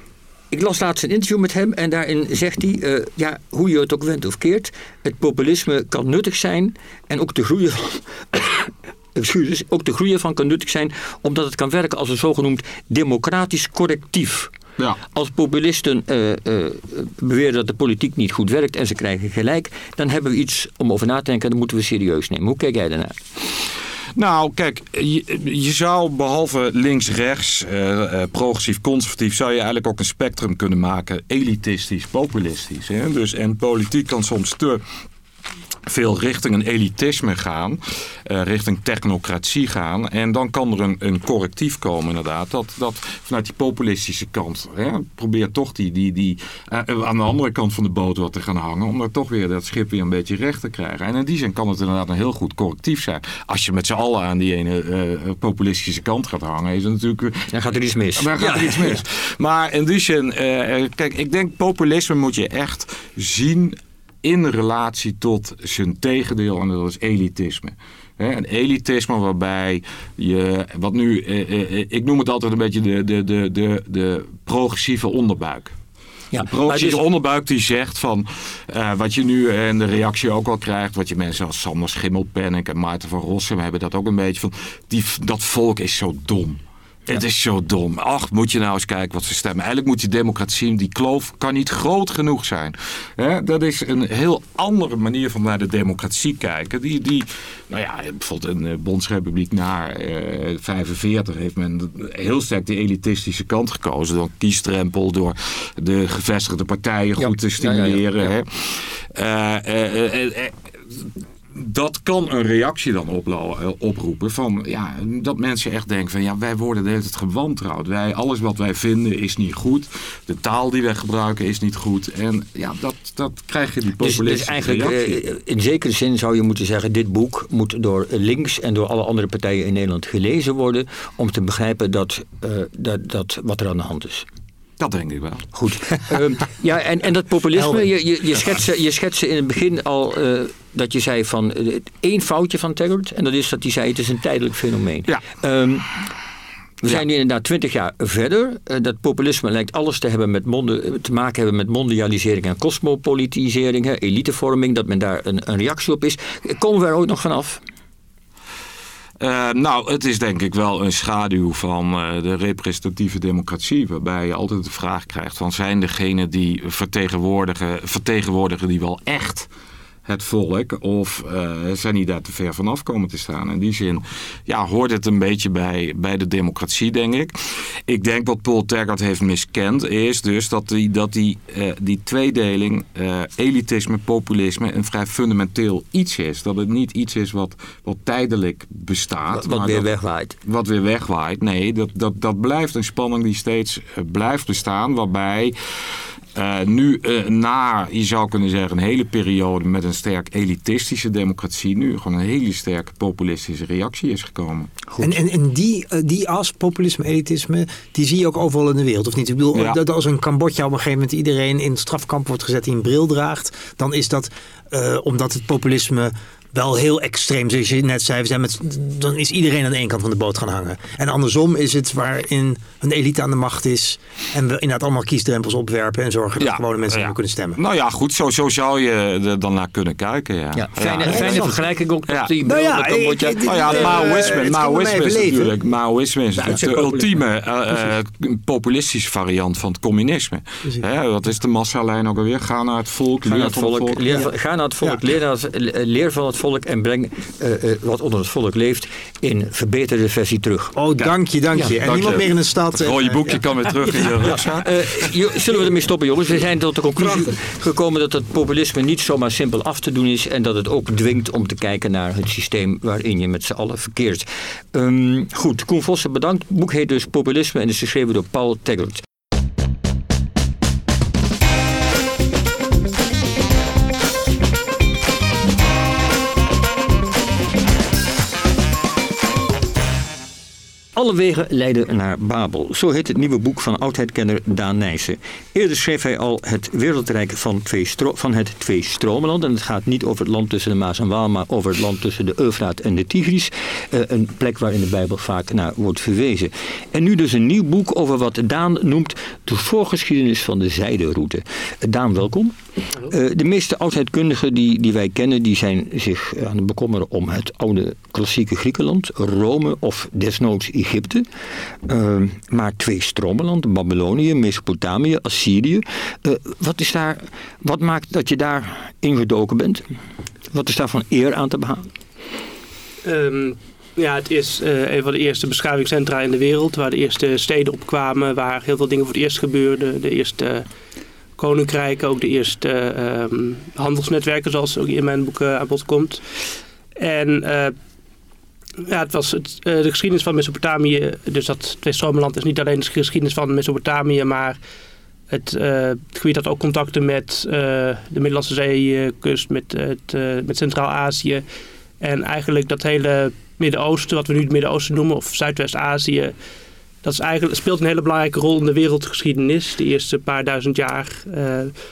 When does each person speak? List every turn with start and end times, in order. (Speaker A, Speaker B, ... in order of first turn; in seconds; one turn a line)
Speaker A: 0.5-14.5
Speaker A: 15.1-23.2
Speaker B: 24.1-34.8
Speaker B: 35.9-75.7
Speaker A: 57.5-59.0
Speaker A: 76.3-77.0
Speaker B: 76.4-125.2
Speaker A: 107.2-108.3
Speaker A: 124.0-134.2
Speaker B: 134.8-135.5
Speaker A: 135.5-145.9
Speaker A: 146.8-157.6
Speaker B: 159.2-169.5
Speaker B: 170.0-177.3
Speaker B: 177.9-189.9
Speaker A: 189.3-190.3
Speaker B: 190.4-195.6
Speaker B: 196.3-204.7
Speaker C: 205.0-227.6
Speaker B: 209.5-209.8
Speaker B: 226.4-231.5
Speaker A: 230.5-234.1
Speaker C: 231.0-231.6
Speaker B: 232.1-232.3
Speaker C: 232.4-235.6
Speaker B: 233.3-244.3
Speaker C: 236.3-237.2
Speaker A: 243.2-250.8
Speaker C: 250.7-254.1
Speaker B: 251.8-255.1
Speaker A: 254.2-269.0
Speaker A: 280.9-311.2
Speaker A: 311.9-319.9
Speaker A: 320.5-321.9
Speaker D: 323.0-330.7
Speaker D: 331.4-336.2
Speaker D: 336.9-337.7
Speaker D: 338.8-344.6
Speaker D: 345.3-351.4
Speaker D: 352.0-356.3
Speaker D: 357.0-361.7